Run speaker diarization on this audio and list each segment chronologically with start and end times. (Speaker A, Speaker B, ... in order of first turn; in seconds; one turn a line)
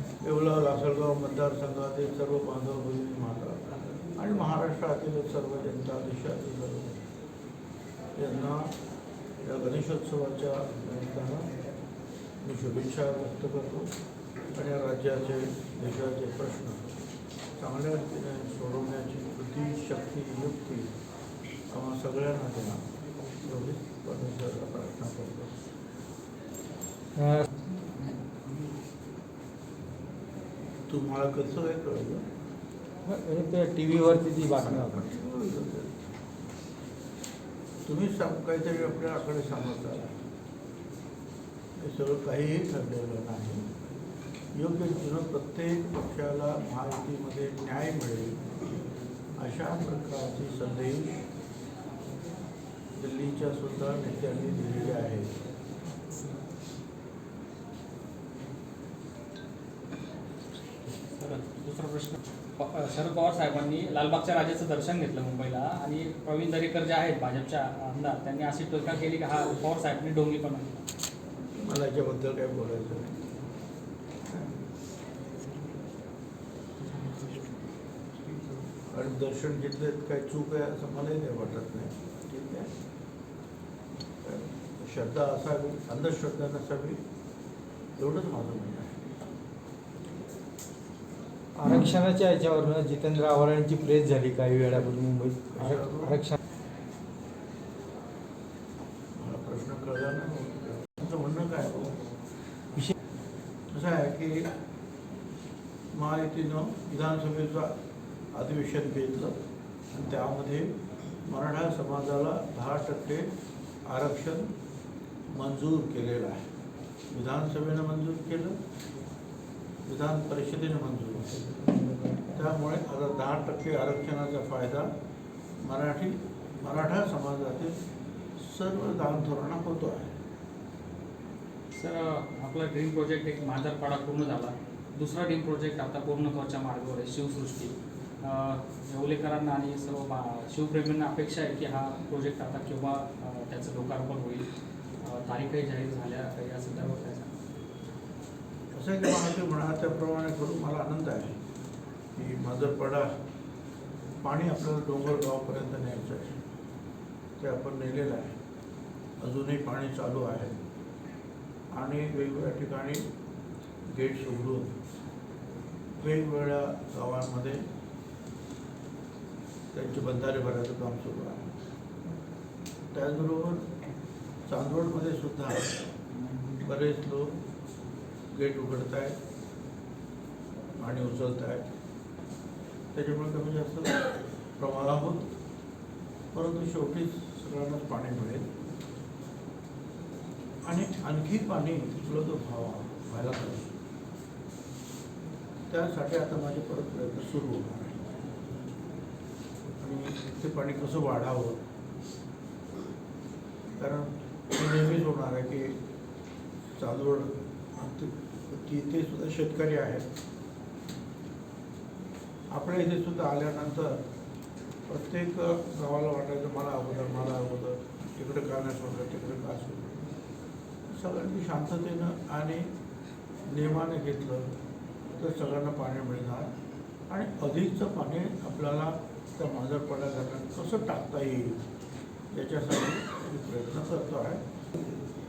Speaker A: 0.2-3.7
Speaker A: 4.2-7.0
Speaker A: 8.2-8.8
Speaker A: 9.4-11.6
Speaker A: 12.4-13.9
Speaker A: 14.6-16.9
Speaker A: 17.6-20.9
Speaker A: 21.7-22.9
Speaker A: 23.4-25.5
Speaker B: 27.2-27.5
Speaker A: 30.9-32.2
Speaker B: 33.1-35.0
Speaker A: 34.5-36.0
Speaker A: 37.9-40.2
Speaker A: 41.8-43.7
Speaker A: 44.5-48.6
Speaker A: 49.4-51.2
Speaker A: 53.0-55.4
Speaker C: 61.2-70.8
Speaker A: 71.6-73.2
Speaker A: 74.3-74.6
Speaker A: 78.8-82.7
Speaker A: 84.2-87.0
Speaker A: 88.0-89.0
Speaker B: 91.6-95.7
Speaker A: 95.5-96.3
Speaker A: 99.2-102.0
Speaker A: 103.7-104.5
Speaker A: 105.9-107.8
Speaker A: 108.3-109.4
Speaker A: 109.9-113.3
Speaker A: 113.9-114.5
Speaker A: 115.3-116.5
Speaker A: 117.1-118.6
Speaker A: 119.9-121.6
Speaker B: 121.7-122.1
Speaker A: 122.2-124.9
Speaker A: 125.6-127.8
Speaker A: 128.4-130.2
Speaker C: 131.8-144.5
Speaker C: 145.0-147.3
Speaker A: 148.7-151.4
Speaker A: 152.2-153.1
Speaker A: 154.2-156.4
Speaker A: 157.4-158.4
Speaker A: 159.2-160.5
Speaker A: 161.7-163.0
Speaker A: 163.9-164.8
Speaker A: 166.0-167.6
Speaker A: 169.7-171.5
Speaker A: 172.9-173.7
Speaker A: 174.5-175.8
Speaker A: 176.6-177.3
Speaker A: 178.3-179.2
Speaker A: 180.8-181.7
Speaker A: 182.9-184.1
Speaker A: 184.6-185.3
Speaker A: 186.3-188.5
Speaker A: 190.7-193.8
Speaker A: 195.7-198.1
Speaker A: 199.8-201.6
Speaker A: 203.8-205.8
Speaker A: 206.8-210.1
Speaker A: 212.5-214.0
Speaker A: 214.9-220.0
Speaker A: 220.9-222.7
Speaker A: 223.5-224.6
Speaker A: 225.2-226.5
Speaker A: 227.1-231.6
Speaker A: 232.3-234.5